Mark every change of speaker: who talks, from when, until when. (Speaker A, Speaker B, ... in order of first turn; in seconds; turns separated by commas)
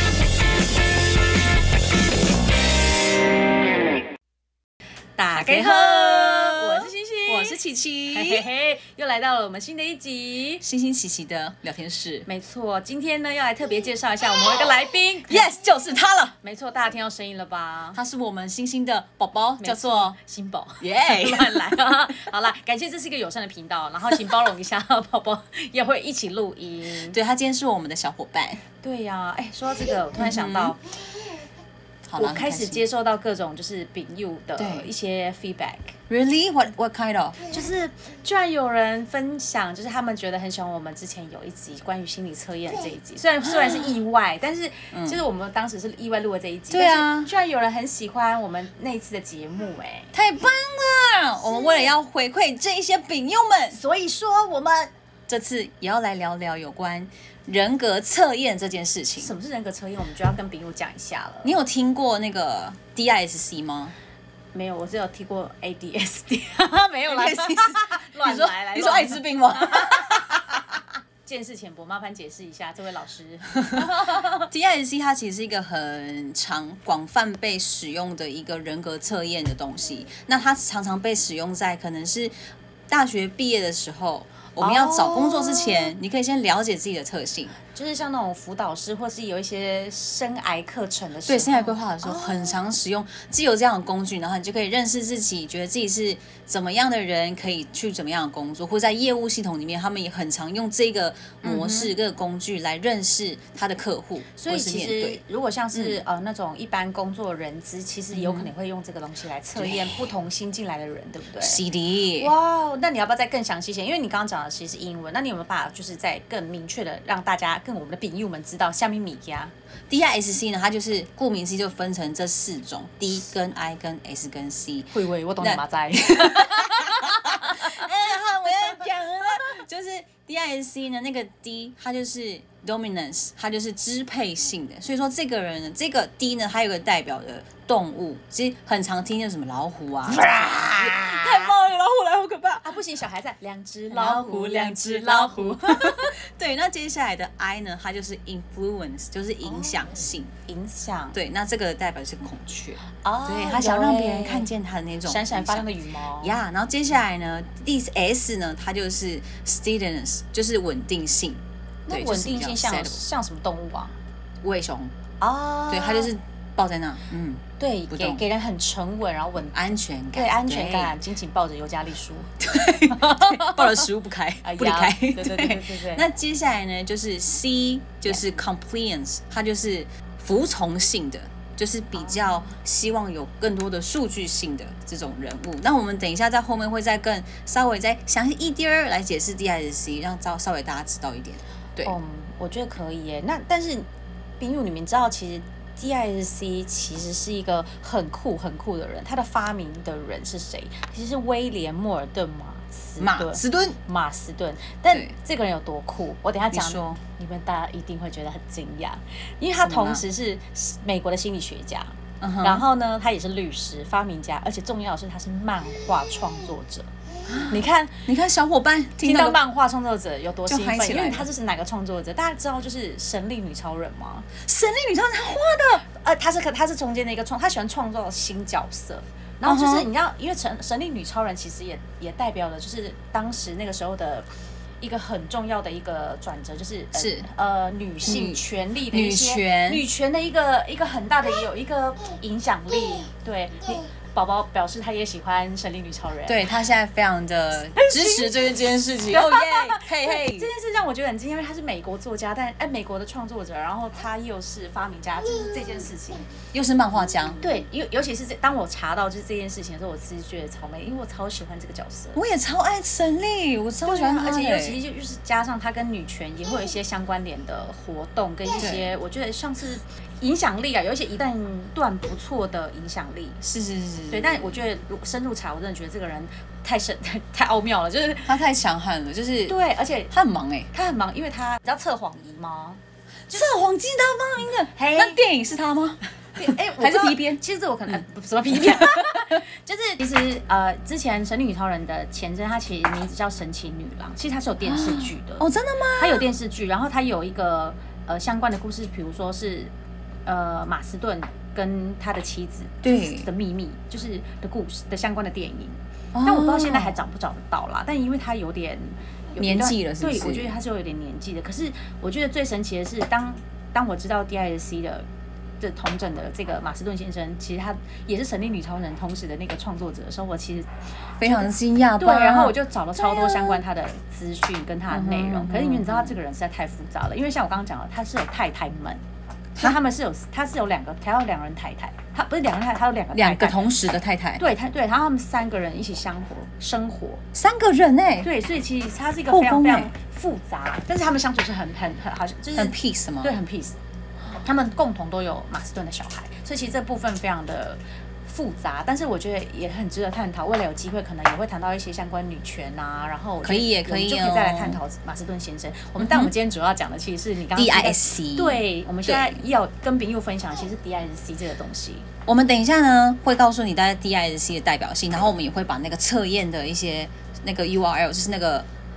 Speaker A: 5.2-10.6, Speaker B: 5.3-8.4, Speaker B: 10.6-12.3, Speaker A: 12.3-15.5, Speaker B: 15.3-16.3, Speaker A: 16.4-18.0, Speaker B: 17.9-20.1, Speaker A: 19.6-27.2, Speaker B: 20.8-21.9, Speaker B: 27.1-28.6, Speaker A: 28.8-30.9, Speaker B: 30.1-30.8, Speaker B: 32.0-32.8, Speaker A: 32.1-35.9, Speaker B: 34.6-34.9, Speaker B: 36.1-37.5, Speaker A: 37.5-50.1, Speaker B: 43.5-43.8, Speaker B: 44.9-45.2, Speaker B: 46.7-47.3, Speaker B: 50.1-53.8, Speaker A: 53.7-54.9, Speaker B: 55.3-59.3, Speaker A: 59.2-61.5, Speaker B: 61.4-63.9, Speaker A: 64.5-74.5, Speaker B: 67.1-70.6, Speaker B: 73.6-82.3, Speaker B: 82.9-87.5, Speaker A: 84.6-85.9, Speaker A: 87.7-92.5, Speaker B: 91.2-105.2, Speaker A: 101.4-101.9, Speaker A: 104.3-111.6, Speaker B: 105.7-106.0, Speaker B: 108.1-108.5, Speaker B: 109.5-109.9, Speaker B: 111.4-112.3, Speaker A: 112.2-119.5, Speaker B: 119.9-142.7, Speaker A: 124.9-127.8, Speaker A: 140.1-141.5, Speaker A: 142.6-146.2, Speaker B: 143.9-150.3, Speaker A: 149.4-151.2, Speaker B: 151.1-155.6, Speaker A: 153.0-154.5, Speaker A: 155.1-156.4, Speaker B: 156.2-163.0, Speaker A: 161.9-163.9, Speaker B: 164.4-164.9, Speaker A: 165.2-166.1, Speaker B: 165.7-168.2, Speaker A: 167.6-172.3, Speaker B: 169.5-170.9, Speaker B: 172.4-191.9, Speaker A: 172.9-173.9, Speaker A: 174.4-176.0, Speaker A: 181.9-182.4, Speaker A: 191.8-193.9, Speaker A: 194.4-216.9, Speaker B: 203.0-203.8, Speaker B: 206.5-207.0, Speaker B: 209.6-210.0, Speaker B: 212.2-212.6, Speaker B: 217.3-219.4, Speaker A: 217.4-218.1, Speaker A: 219.0-224.3, Speaker B: 220.4-221.3, Speaker B: 224.4-225.8, Speaker A: 225.8-234.3, Speaker B: 229.4-229.9, Speaker A: 234.8-246.4, Speaker B: 236.9-237.3, Speaker B: 238.0-239.8, Speaker B: 246.2-250.5, Speaker A: 247.7-256.3, Speaker B: 256.5-257.4, Speaker A: 257.4-262.2, Speaker B: 262.1-264.8, Speaker A: 263.9-273.4, Speaker B: 268.6-268.9, Speaker B: 273.4-274.5, Speaker A: 274.1-278.4, Speaker B: 278.2-279.6, Speaker A: 279.5-280.1, Speaker B: 280.1-280.7, Speaker A: 280.7-282.8, Speaker B: 283.3-287.4, Speaker A: 284.7-285.2, Speaker A: 286.4-299.7, Speaker B: 288.5-289.1, Speaker B: 294.6-296.2, Speaker A: 300.2-315.1, Speaker B: 302.8-303.3, Speaker B: 306.1-307.0, Speaker B: 309.4-310.6, Speaker A: 315.6-320.7, Speaker B: 321.2-323.6, Speaker A: 321.2-329.0, Speaker B: 324.9-326.1, Speaker A: 329.6-333.7, Speaker B: 333.1-334.4, Speaker A: 334.4-337.2, Speaker B: 337.3-338.3, Speaker A: 338.2-343.7, Speaker B: 339.3-339.9, Speaker B: 342.6-343.4, Speaker A: 344.3-362.1, Speaker B: 353.4-354.8, Speaker B: 356.0-356.3, Speaker B: 357.5-359.4, Speaker B: 362.2-368.7